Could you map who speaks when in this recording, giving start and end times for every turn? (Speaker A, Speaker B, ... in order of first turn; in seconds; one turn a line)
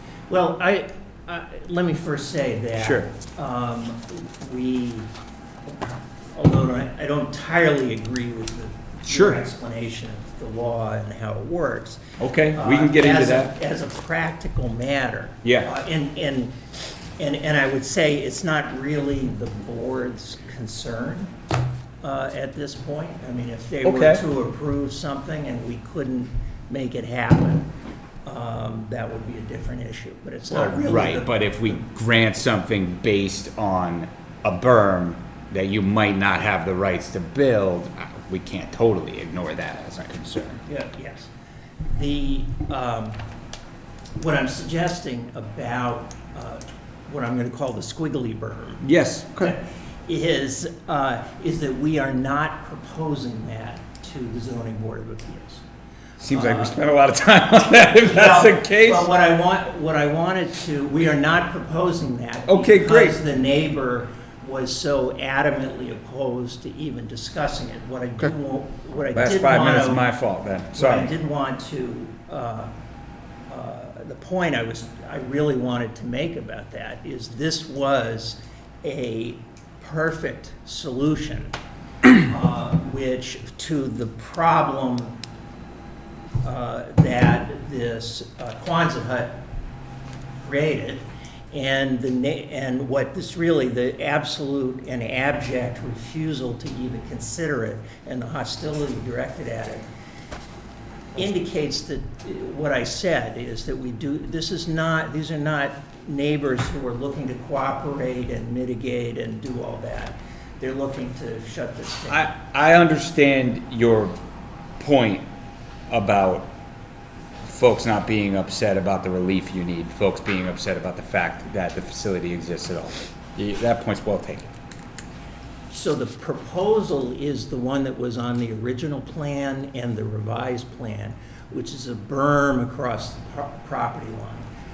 Speaker A: 0.3-5.1
Speaker B: 2.8-3.1
Speaker A: 6.3-12.0
Speaker B: 9.1-9.4
Speaker B: 12.2-13.5
Speaker A: 12.5-16.5
Speaker B: 15.4-15.7
Speaker A: 17.2-21.3
Speaker A: 22.0-27.7
Speaker B: 23.8-24.2
Speaker A: 28.2-31.8
Speaker B: 30.5-40.6
Speaker A: 40.6-41.3
Speaker A: 41.9-43.2
Speaker A: 44.2-48.8
Speaker B: 48.8-49.5
Speaker A: 49.4-55.6
Speaker B: 56.2-59.1
Speaker A: 56.3-56.8
Speaker A: 57.8-70.1
Speaker B: 62.5-63.2
Speaker B: 69.1-71.1
Speaker A: 70.7-72.7
Speaker A: 73.5-81.5
Speaker A: 82.1-85.2
Speaker A: 86.4-89.4
Speaker A: 90.4-99.9
Speaker A: 101.1-112.3
Speaker B: 112.1-114.2
Speaker B: 114.8-115.3
Speaker B: 115.9-116.5
Speaker B: 117.4-124.5
Speaker A: 125.7-134.5